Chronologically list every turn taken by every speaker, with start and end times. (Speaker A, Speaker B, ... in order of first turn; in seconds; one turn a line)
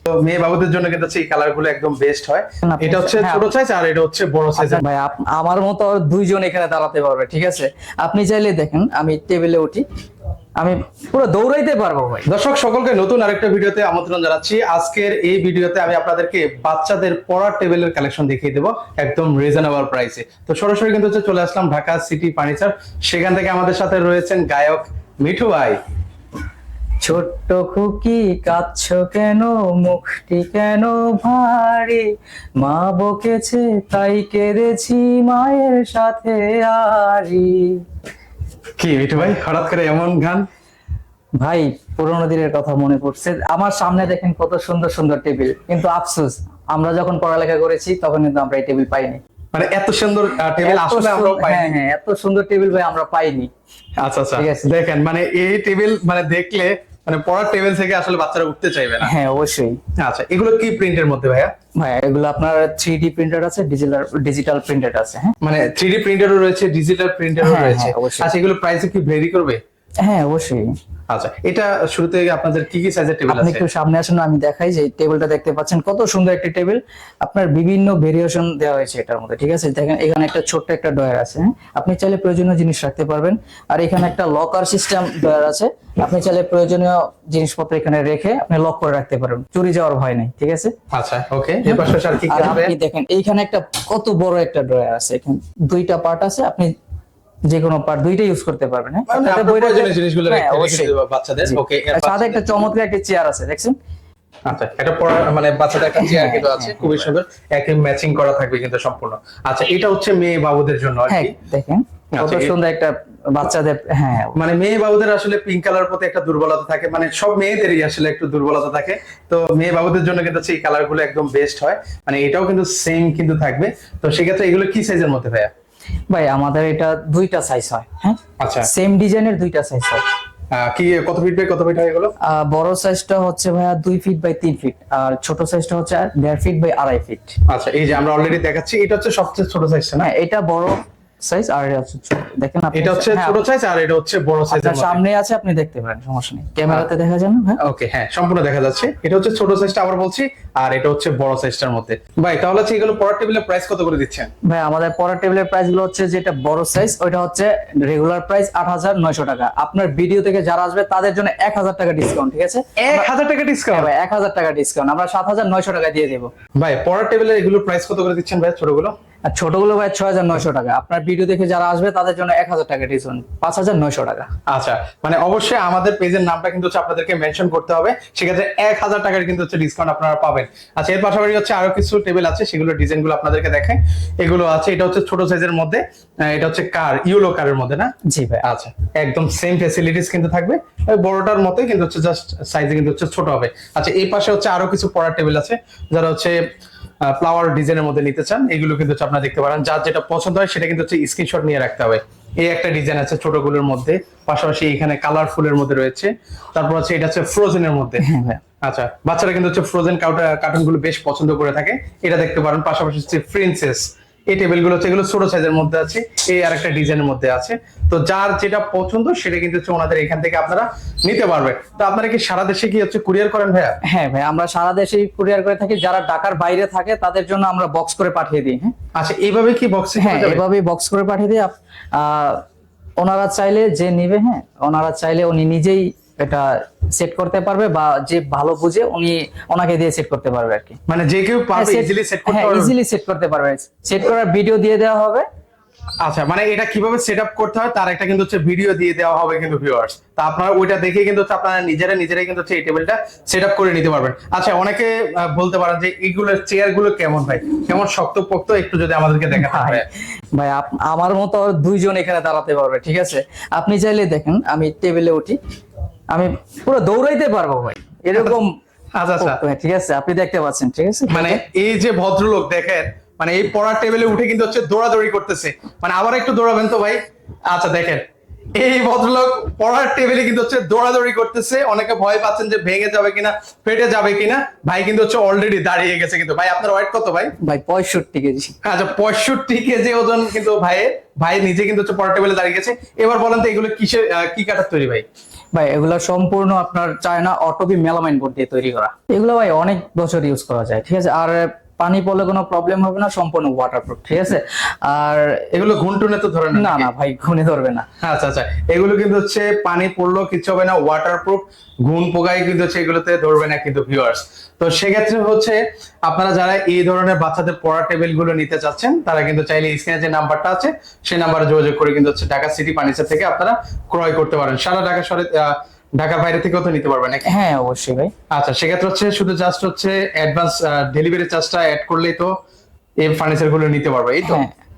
Speaker A: 0.1-4.8
Speaker B: 2.6-3.5
Speaker B: 4.6-9.8
Speaker B: 10.6-12.3
Speaker A: 12.3-25.8
Speaker B: 27.0-37.8
Speaker A: 38.8-40.5
Speaker B: 41.4-49.2
Speaker A: 49.5-51.7
Speaker B: 50.6-53.5
Speaker A: 54.0-59.1
Speaker B: 54.4-54.7
Speaker B: 59.0-59.8
Speaker A: 60.0-61.5
Speaker B: 61.8-65.4
Speaker A: 65.4-69.6
Speaker B: 67.4-68.3
Speaker B: 70.0-70.8
Speaker A: 71.1-73.7
Speaker B: 73.3-90.7
Speaker A: 90.9-92.8
Speaker B: 91.7-96.7
Speaker B: 97.5-100.9
Speaker A: 99.1-102.7
Speaker B: 101.4-103.8
Speaker A: 104.5-111.3
Speaker B: 106.0-107.0
Speaker B: 111.1-114.4
Speaker A: 112.1-112.5
Speaker A: 114.3-125.5
Speaker B: 126.1-130.0
Speaker A: 128.4-128.7
Speaker A: 130.5-132.1
Speaker B: 132.2-137.4
Speaker A: 137.5-140.1
Speaker B: 140.0-143.4
Speaker A: 142.7-145.0
Speaker B: 144.5-147.6
Speaker A: 147.6-154.3
Speaker B: 154.4-163.1
Speaker A: 162.8-163.9
Speaker B: 163.7-166.3
Speaker A: 166.6-168.9
Speaker B: 169.3-174.3
Speaker A: 174.5-187.9
Speaker B: 188.1-188.4
Speaker A: 188.4-196.4
Speaker A: 197.0-208.1
Speaker B: 208.0-208.4
Speaker A: 208.6-223.8
Speaker B: 223.8-228.8
Speaker A: 228.9-230.4
Speaker B: 230.0-232.4
Speaker B: 233.0-240.8
Speaker A: 240.9-242.8
Speaker B: 241.5-245.3
Speaker A: 246.0-259.9
Speaker B: 259.4-265.4
Speaker B: 266.1-268.6
Speaker A: 269.0-269.4
Speaker B: 269.2-271.4
Speaker A: 271.1-287.3
Speaker B: 287.4-288.6
Speaker A: 288.6-295.1
Speaker B: 295.5-305.5
Speaker A: 305.5-306.9
Speaker B: 306.5-307.9
Speaker A: 308.0-327.3
Speaker B: 327.2-328.1
Speaker A: 328.3-332.3
Speaker A: 333.0-334.4
Speaker B: 334.2-334.5